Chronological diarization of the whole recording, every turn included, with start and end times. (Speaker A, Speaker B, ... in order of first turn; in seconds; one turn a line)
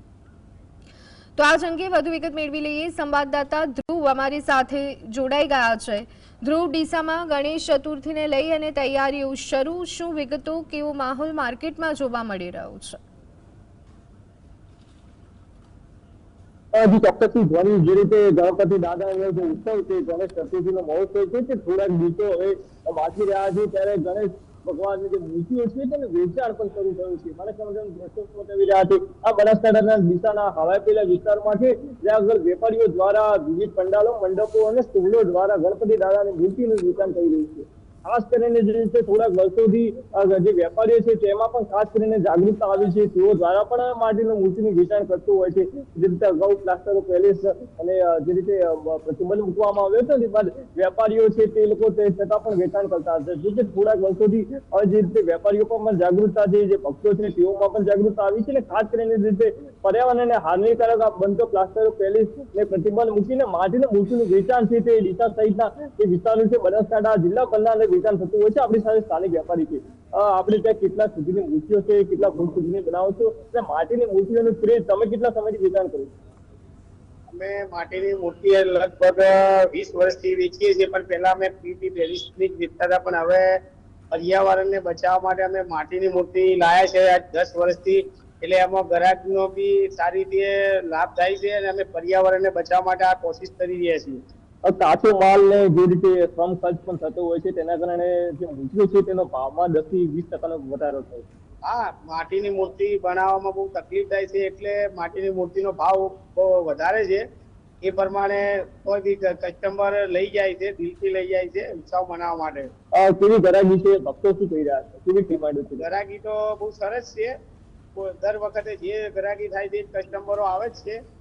Speaker A: 1.4-13.0
Speaker B: 16.7-76.1
Speaker C: 77.3-83.6
Speaker C: 84.1-94.2
Speaker B: 94.7-101.3
Speaker C: 101.7-107.2
Speaker C: 107.8-112.7
Speaker B: 112.9-115.8
Speaker C: 115.8-117.3
Speaker C: 118.0-121.0